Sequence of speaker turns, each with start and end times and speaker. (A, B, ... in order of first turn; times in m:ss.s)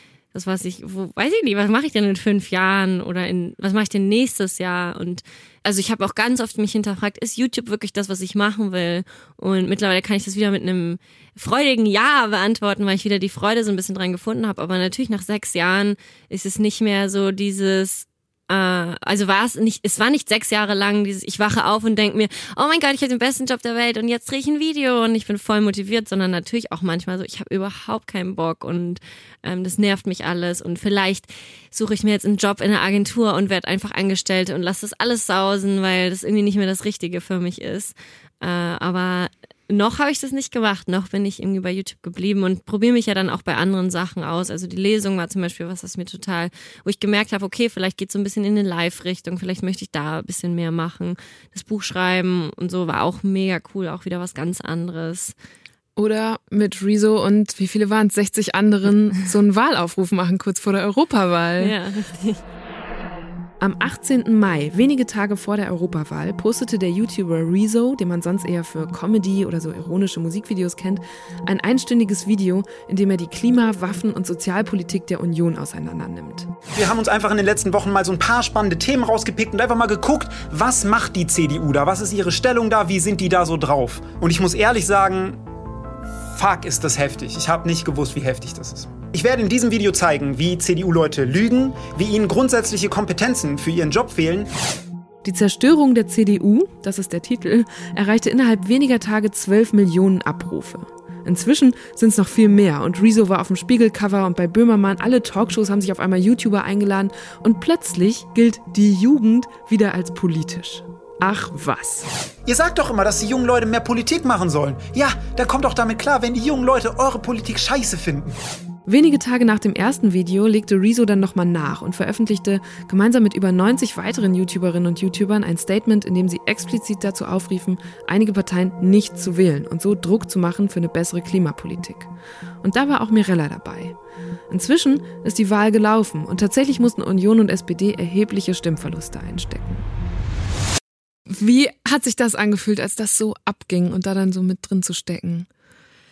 0:00.3-0:55.4 A
0:56.0-1:01.7 B
1:01.6-1:02.4 A
1:03.6-1:16.5 B
1:16.7-1:25.4 C
1:26.4-1:34.5 C
1:35.2-1:52.1 B
1:52.5-1:58.3 C
1:58.9-2:12.1 B
2:12.6-2:14.0 B
2:14.5-2:19.8 B
2:21.3-2:25.5 B